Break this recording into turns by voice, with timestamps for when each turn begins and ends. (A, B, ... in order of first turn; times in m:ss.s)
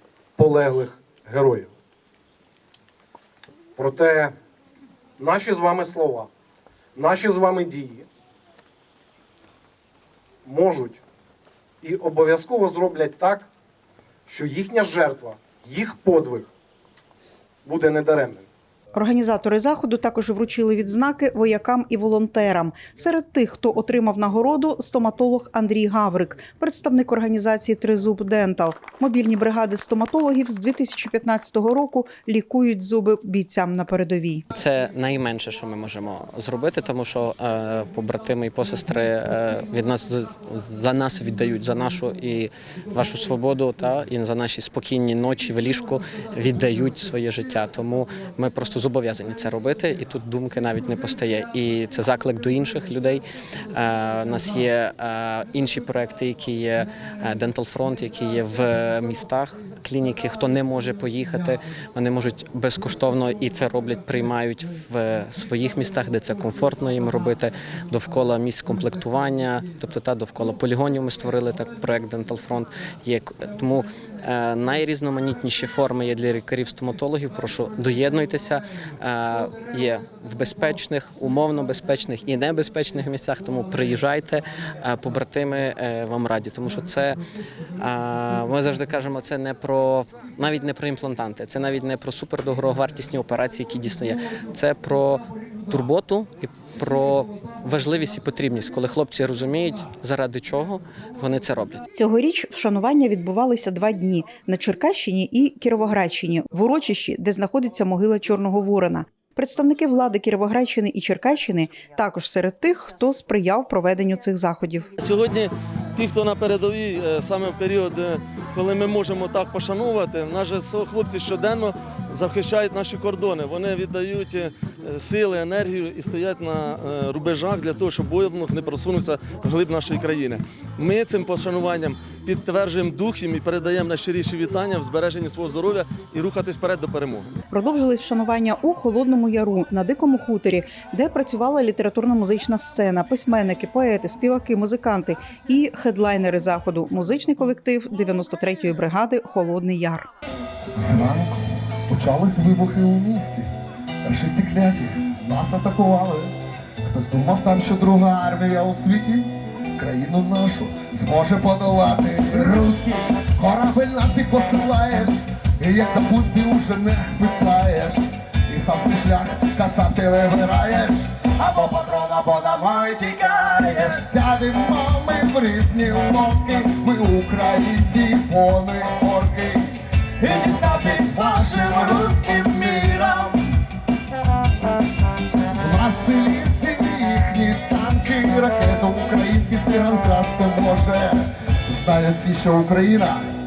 0:00.4-0:01.7 A
0:03.8-0:04.3 A
0:05.2-0:06.3 A
0:07.0-0:08.1 A
0:10.4-0:11.0 A
0:11.8-0:13.5 A
0:14.3-0:16.5 A
0:17.6-0:18.5 A
0:19.0-0:34.4 B
0:34.5-0:53.2 C
0:53.7-1:27.2 C
1:27.8-1:41.8 C
1:41.9-1:54.9 B
1:55.0-2:17.3 D
2:17.5-2:30.1 B
2:30.8-2:33.5 E
2:34.0-2:59.8 E
3:00.2-3:00.6 D
3:00.3-3:03.4 E
3:01.3-3:01.7 D
3:05.5-3:13.3 E